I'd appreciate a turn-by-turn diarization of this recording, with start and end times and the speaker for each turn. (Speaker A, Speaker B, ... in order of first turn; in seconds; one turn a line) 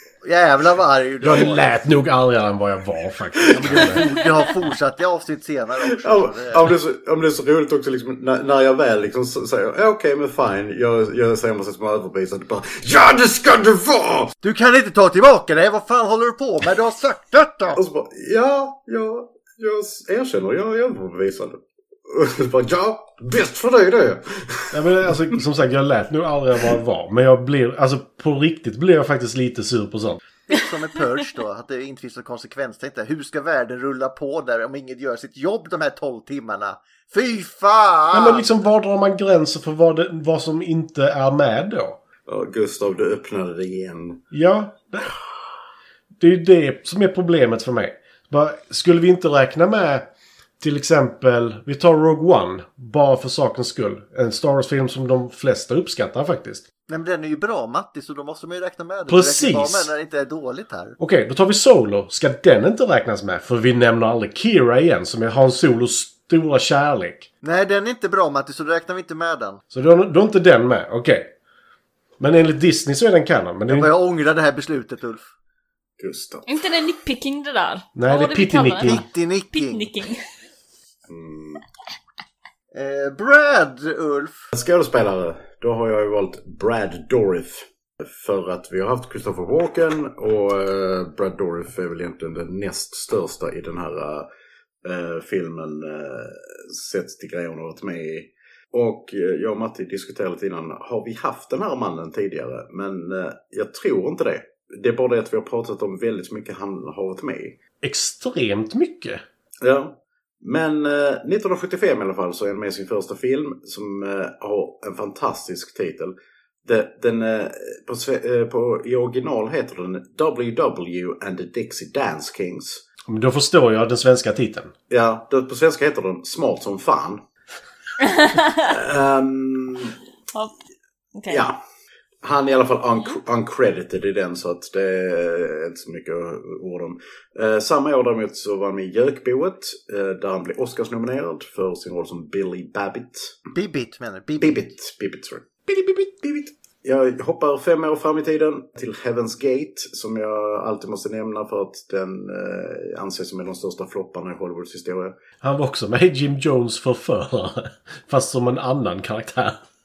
Speaker A: 0.2-1.8
Speaker B: 1.2-4.0
Speaker A: 3.5-6.6
Speaker C: 6.0-14.3
Speaker A: 14.4-17.8
Speaker C: 17.8-25.3
Speaker B: 24.7-30.2
Speaker A: 30.5-38.6
Speaker B: 38.1-42.0
Speaker C: 42.3-44.2
Speaker B: 44.3-45.1
Speaker B: 46.2-50.1
Speaker B: 50.6-56.6
Speaker A: 56.9-61.0
Speaker B: 59.1-59.9
Speaker B: 61.0-67.3
Speaker A: 67.4-69.6
Speaker B: 69.7-71.3
Speaker B: 72.2-73.9
Speaker A: 73.7-75.3
Speaker C: 76.0-76.5
Speaker D: 76.5-80.2
Speaker B: 78.0-79.0
Speaker A: 78.8-79.9
Speaker C: 81.1-81.6
Speaker A: 82.7-84.5
Speaker C: 84.5-94.3
Speaker C: 94.8-107.6
Speaker B: 107.8-109.2
Speaker C: 109.6-116.1
Speaker C: 116.6-122.8
Speaker B: 123.1-124.7
Speaker C: 124.9-127.2
Speaker D: 128.0-128.5
Speaker C: 128.6-130.0
Speaker D: 131.1-131.5
Speaker C: 131.3-131.6
Speaker C: 132.2-143.4
Speaker A: 143.5-144.7
Speaker C: 144.4-155.2
Speaker B: 155.4-159.6